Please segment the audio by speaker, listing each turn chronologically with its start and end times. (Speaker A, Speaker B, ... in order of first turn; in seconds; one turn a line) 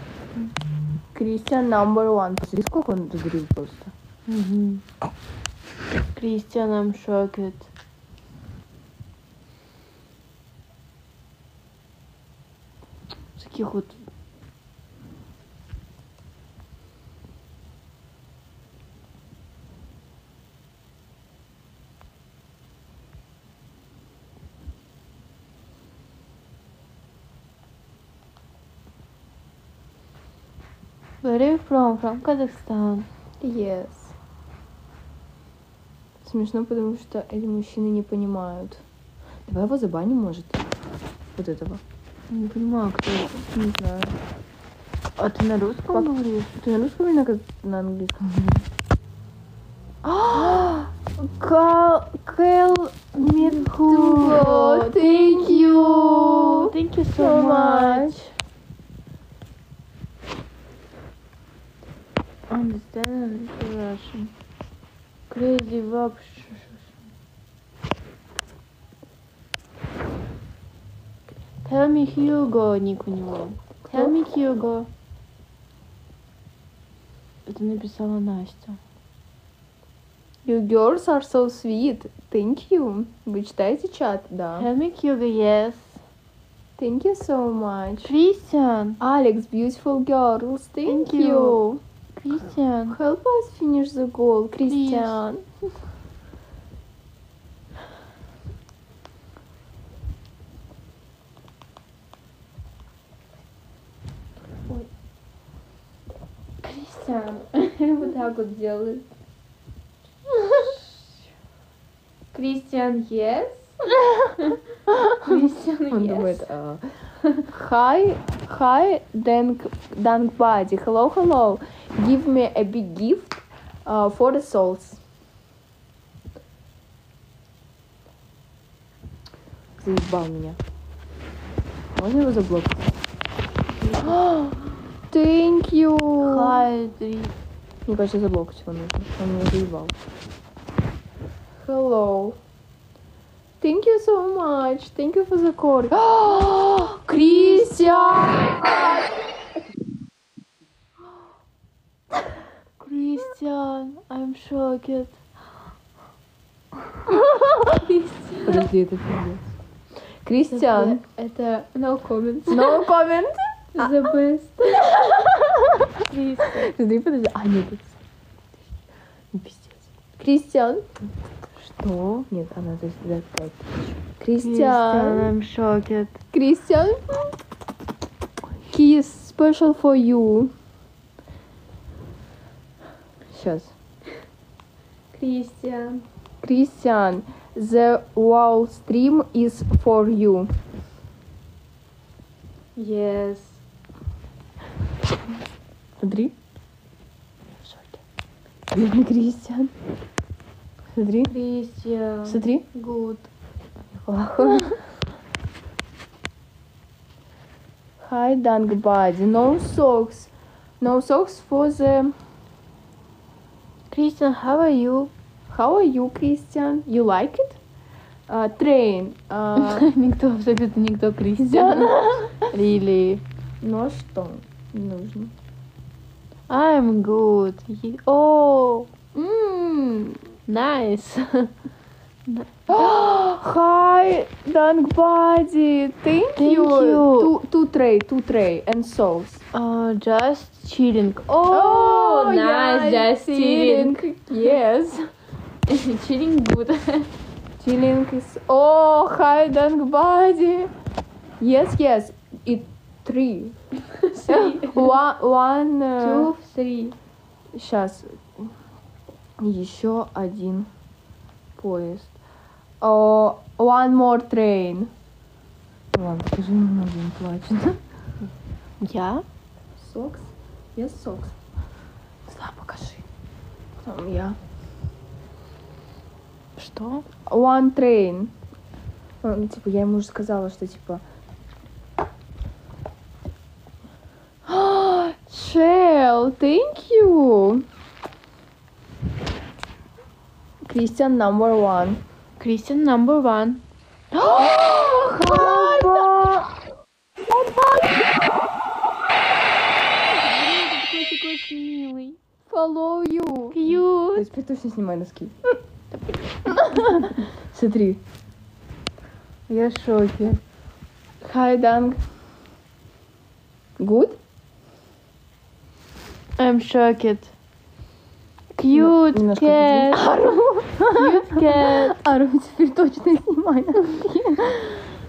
Speaker A: 1.1-3.9
Speaker B: 4.3-4.8
Speaker B: 6.1-7.7
Speaker B: 13.4-14.0
Speaker B: 31.2-33.1
Speaker A: 33.4-34.1
Speaker A: 36.2-38.8
Speaker A: 39.5-40.7
Speaker A: 41.4-41.8
Speaker B: 42.3-43.5
Speaker A: 43.5-44.2
Speaker B: 45.2-46.6
Speaker A: 45.9-48.3
Speaker A: 50.0-58.2
Speaker B: 50.3-50.7
Speaker B: 53.2-58.3
Speaker B: 62.5-64.3
Speaker B: 65.3-66.8
Speaker B: 71.6-74.9
Speaker A: 73.8-74.2
Speaker B: 77.5-78.8
Speaker A: 80.4-84.7
Speaker B: 84.5-86.0
Speaker A: 86.8-88.1
Speaker B: 88.0-89.0
Speaker A: 89.0-91.8
Speaker B: 90.8-91.6
Speaker B: 92.2-93.0
Speaker A: 92.9-95.4
Speaker B: 94.7-95.2
Speaker B: 106.6-108.2
Speaker A: 108.0-109.0
Speaker B: 110.3-110.8
Speaker B: 112.3-114.6
Speaker A: 114.9-116.8
Speaker B: 115.2-116.5
Speaker A: 117.4-125.0
Speaker A: 129.8-130.6
Speaker A: 132.0-132.9
Speaker B: 133.8-134.2
Speaker A: 134.0-134.6
Speaker A: 135.1-136.7
Speaker B: 136.2-137.3
Speaker A: 137.8-139.9
Speaker A: 141.6-142.4
Speaker A: 143.6-149.0
Speaker B: 146.3-148.9
Speaker B: 152.8-155.2
Speaker B: 157.4-158.7
Speaker A: 158.4-159.5
Speaker A: 160.2-161.0
Speaker B: 160.5-162.8
Speaker A: 162.4-165.9
Speaker B: 163.8-164.1
Speaker B: 166.1-166.7
Speaker A: 166.4-168.0
Speaker B: 169.3-169.8
Speaker A: 170.2-170.8
Speaker A: 171.6-175.3
Speaker B: 174.4-176.2
Speaker A: 176.3-177.0
Speaker A: 178.7-180.5
Speaker A: 183.3-183.7
Speaker B: 185.1-186.0
Speaker A: 186.4-190.5
Speaker B: 192.8-193.6
Speaker A: 196.0-196.3
Speaker A: 198.7-199.7
Speaker A: 200.9-201.3
Speaker B: 201.3-203.3
Speaker A: 202.2-202.6
Speaker A: 204.0-204.8
Speaker A: 208.0-212.1
Speaker B: 213.9-215.1
Speaker A: 215.5-217.6
Speaker A: 218.3-219.9
Speaker B: 219.6-223.2
Speaker A: 221.4-222.4
Speaker A: 223.6-225.3
Speaker B: 226.5-228.9
Speaker A: 229.1-230.3
Speaker B: 230.5-231.5
Speaker A: 232.7-239.4
Speaker B: 236.3-237.3
Speaker B: 239.5-244.0
Speaker A: 241.5-245.1
Speaker B: 245.7-247.1
Speaker A: 247.6-250.7
Speaker A: 251.4-253.5
Speaker B: 254.0-254.9
Speaker A: 254.3-256.3
Speaker B: 256.0-256.9
Speaker A: 257.5-258.5
Speaker A: 259.4-260.7
Speaker A: 261.6-262.1
Speaker A: 262.8-264.9
Speaker A: 265.9-267.8
Speaker B: 268.8-269.2
Speaker A: 269.8-271.3
Speaker A: 272.3-273.0
Speaker A: 273.8-274.4
Speaker B: 276.6-277.0
Speaker A: 277.3-278.3
Speaker A: 279.2-281.0
Speaker A: 284.5-287.6
Speaker A: 290.6-292.0
Speaker B: 292.4-293.6
Speaker A: 294.1-296.4
Speaker B: 294.9-296.4
Speaker A: 297.3-298.1
Speaker B: 300.1-302.2
Speaker A: 302.5-305.3
Speaker B: 303.5-304.3
Speaker B: 306.5-307.0
Speaker A: 306.6-308.0
Speaker B: 309.5-310.4
Speaker A: 311.2-312.0
Speaker A: 313.8-314.2
Speaker B: 316.4-317.3
Speaker B: 318.5-320.2
Speaker A: 318.7-324.8
Speaker B: 320.9-321.9